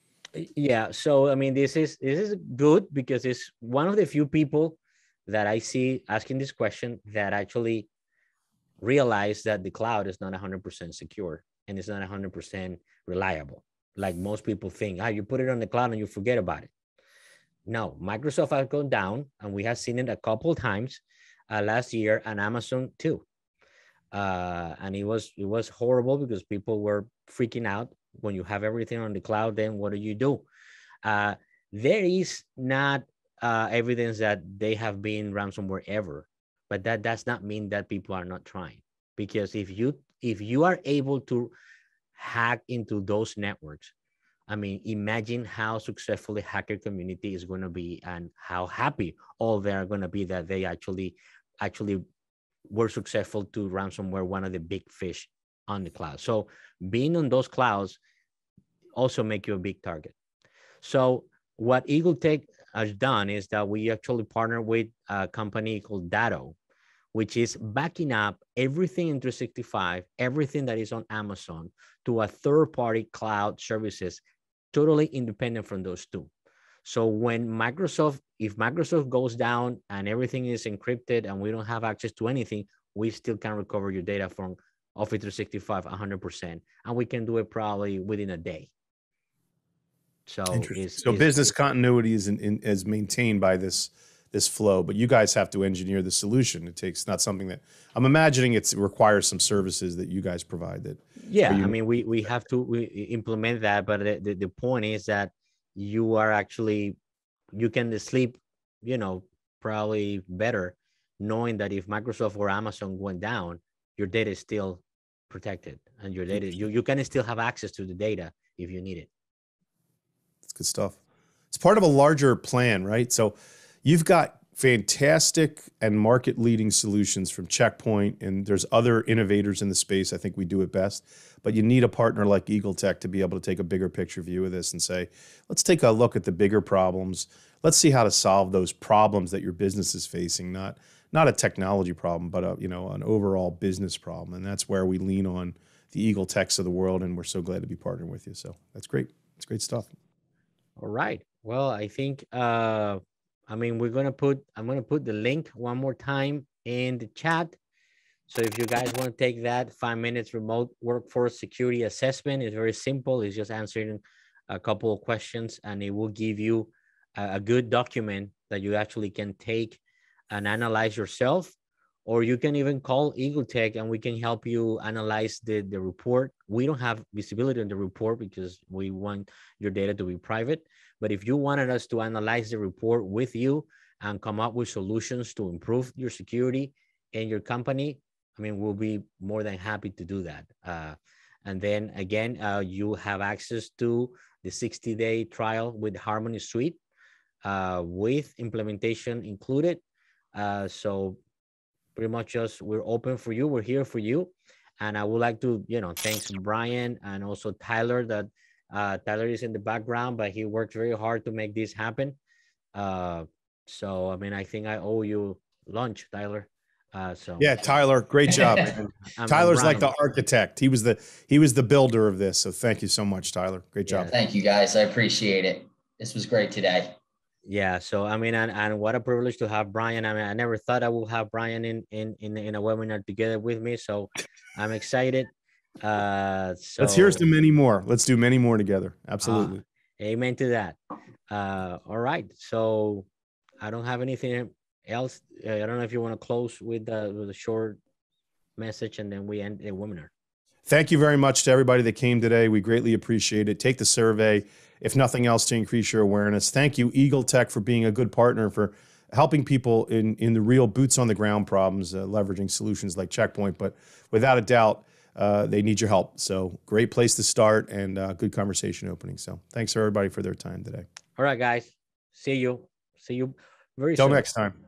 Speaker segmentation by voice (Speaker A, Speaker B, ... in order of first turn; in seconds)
Speaker A: 0.3-7.9, 8.8-16.7, 17.6-23.2, 24.1-30.4, 31.0-41.5, 42.1-43.9, 44.5-52.0, 52.7-58.0, 59.0-60.1, 60.8-66.5, 67.1-74.2, 74.7-76.3, 76.8-88.7, 90.2-91.5, 101.2-107.0, 107.5-119.1, 150.8-157.5, 158.3-169.8, 170.3-171.5, 172.1-196.8, 197.4-199.8, 200.3-201.2, 201.9-212.2, 212.7-217.6, 219.1-219.9, 223.8-224.1, 227.4-237.2, 239.2-240.8, 241.3-243.1, 243.6-247.8, 248.6-250.1, 271.1-274.3
Speaker B: 90.5-101.8, 120.4-121.0, 121.5-149.9, 217.4-224.1, 236.8-239.6, 250.7-270.9, 274.0-274.5
Speaker C: 224.1-226.9